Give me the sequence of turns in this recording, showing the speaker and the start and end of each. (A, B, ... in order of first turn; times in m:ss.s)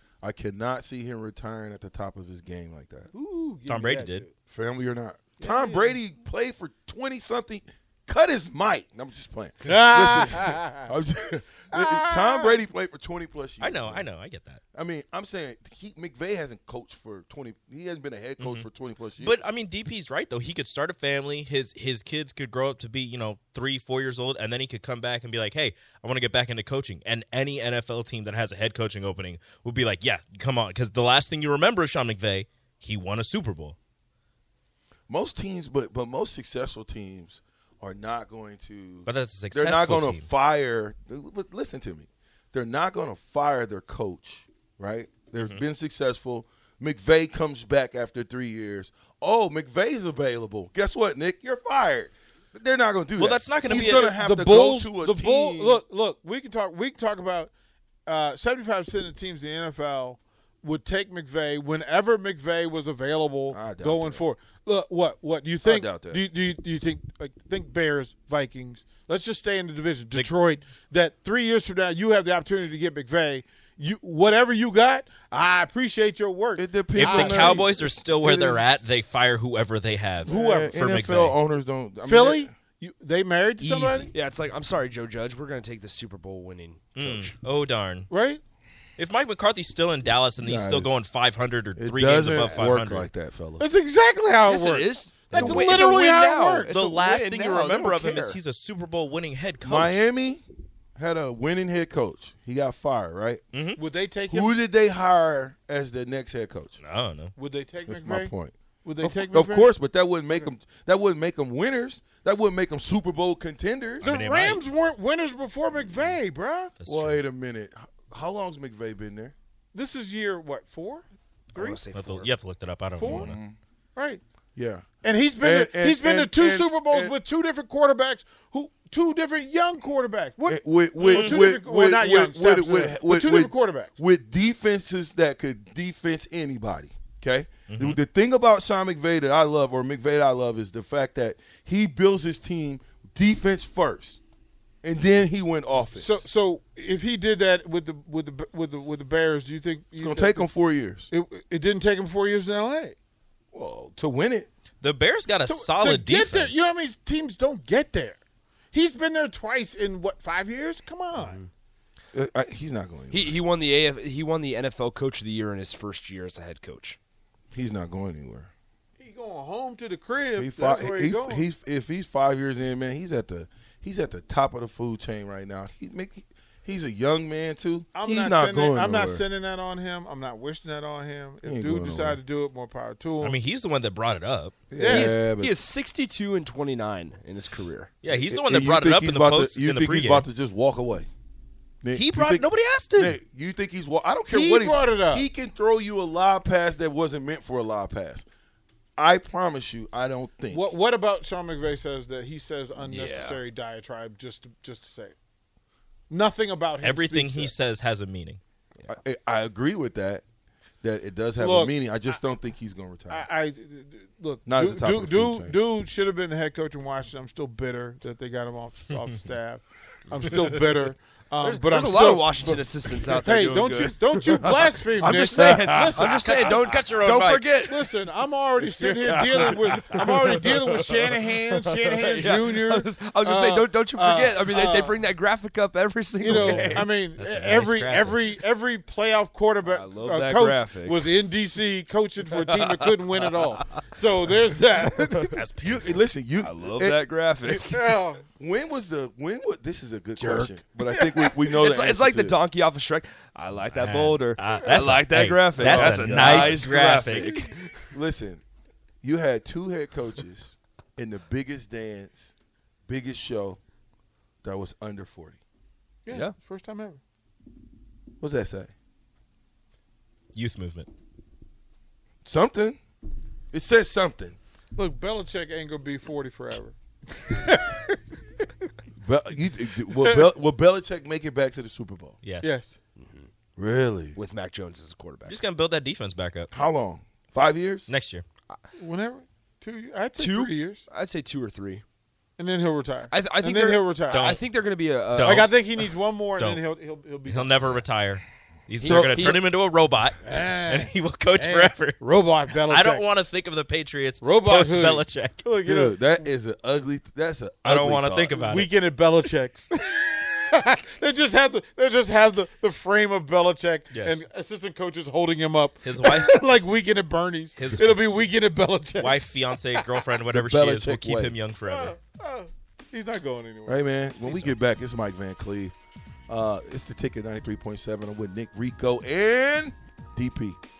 0:00.2-0:03.1 A
0:03.1-0:04.3 B
0:03.7-0:04.2 C
0:04.5-0:14.1 A
0:05.4-0:06.0 B
0:09.6-0:10.9 B
0:11.7-0:12.6 B
0:13.6-0:14.6 C
0:14.7-0:19.4 A
0:18.4-0:18.7 C
0:19.2-0:33.8 C
0:35.1-0:55.8 A
0:39.1-0:40.3 C
0:53.2-0:54.1 C
0:53.7-0:57.5 B
0:58.1-1:17.7 B
1:03.5-1:04.2 A
1:05.6-1:06.2 A
1:16.6-1:18.8 A
1:17.0-1:21.4 C
1:20.2-1:22.5 A
1:20.3-1:20.7 B
1:22.0-1:24.1 B
1:23.7-1:23.9 A
1:24.1-1:27.3 D
1:27.0-1:28.1 C
1:28.1-1:28.4 B
1:29.0-1:33.1 C
1:30.4-1:31.0 A
1:31.8-1:33.6 A
1:33.6-1:36.7 B
1:34.5-1:38.4 D
1:35.3-1:35.8 C
1:36.7-1:40.0 C
1:39.6-1:40.4 A
1:41.0-1:43.4 A
1:43.5-1:43.8 C
1:43.8-1:44.5 B
1:44.3-1:46.8 A
1:46.8-1:47.3 C
1:47.4-1:48.3 B
1:47.9-1:54.1 A
1:48.8-1:49.7 B
1:54.0-1:54.6 C
1:54.0-1:56.8 B
1:56.8-1:57.2 C
1:56.9-1:59.3 A
1:59.7-2:01.8 B
2:01.6-2:02.3 D
2:01.9-2:03.4 C
2:03.0-2:03.3 B
2:03.1-2:03.6 A
2:04.0-2:04.2 B
2:04.6-2:04.9 A
2:05.0-2:13.9 B
2:05.4-2:07.2 A
2:10.5-2:24.2 A
2:17.7-2:18.0 C
2:24.8-2:26.1 A
2:25.9-2:30.5 B
2:30.0-2:31.1 A
2:31.1-2:33.0 B
2:33.5-2:34.5 A
2:34.8-2:36.7 C
2:35.5-2:38.2 B
2:38.7-2:41.4 B
2:41.2-2:41.5 D
2:42.1-2:43.4 A
2:43.1-2:47.0 D
2:47.5-2:48.5 A
2:49.0-2:51.5 B
2:50.4-2:59.2 A
2:57.9-3:03.4 B
3:01.4-3:02.2 A
3:03.2-3:04.6 C
3:04.7-3:05.6 A
3:04.8-3:05.2 B
3:04.8-3:07.9 D
3:08.0-3:10.3 C
3:08.1-3:11.1 A
3:11.8-3:18.3 A
3:12.0-3:13.2 C
3:14.3-3:15.3 B
3:19.0-3:20.7 A
3:20.5-3:25.2 B
3:22.8-3:23.4 D
3:26.1-3:27.5 B
3:26.8-3:28.4 C
3:28.9-3:30.2 A
3:30.8-3:33.3 A
3:31.4-3:32.2 B
3:33.1-3:46.6 B
3:34.5-3:35.6 A
3:40.2-3:40.5 D
3:41.4-3:47.9 D
3:45.3-3:46.0 A
3:46.2-3:47.6 C
3:47.6-3:55.0 B
3:48.8-3:56.9 D
3:56.2-4:05.4 B
3:56.3-3:58.4 C
3:59.7-4:01.2 D
4:02.3-4:03.4 D
4:05.3-4:06.0 C
4:05.6-4:07.6 A
4:06.4-4:08.0 D
4:07.5-4:08.2 B
4:08.2-4:12.4 A
4:10.2-4:10.5 D
4:10.9-4:11.4 B
4:11.5-4:17.9 D
4:13.7-4:17.4 C
4:15.6-4:17.2 A
4:17.9-4:18.4 A
4:19.0-4:22.3 A
4:22.9-4:23.6 A
4:24.4-4:25.4 A
4:26.1-4:27.0 B
4:28.2-4:28.7 A
4:30.3-4:30.9 C
4:32.2-4:32.8 A
4:33.5-4:34.4 A
4:34.8-4:38.0 B
4:39.0-4:42.2 A
4:40.0-4:40.3 B
4:42.2-4:42.5 C
4:42.4-4:42.8 B
4:43.0-4:43.3 D
4:43.6-4:44.2 A
4:44.2-4:45.4 D
4:45.3-4:46.5 C
4:46.5-4:47.9 A
4:47.9-4:48.2 C
4:48.8-4:50.8 B
4:50.2-4:51.8 D
4:52.4-4:54.3 B
4:53.1-4:55.5 D
4:54.1-4:54.4 C
4:55.1-4:55.5 C
4:55.2-4:57.8 B
4:57.3-5:02.0 C
4:58.8-4:59.4 D
5:00.2-5:03.1 B
5:02.5-5:05.4 C
5:04.2-5:06.2 B
5:05.6-5:08.4 A
5:07.6-5:08.7 C
5:08.4-5:19.9 B
5:13.9-5:14.2 C
5:15.8-5:16.4 C
5:17.6-5:18.1 C
5:19.0-5:21.9 C
5:20.3-5:21.4 A
5:21.7-5:23.8 B
5:23.7-5:25.8 A
5:24.2-5:24.6 C
5:26.3-5:30.6 A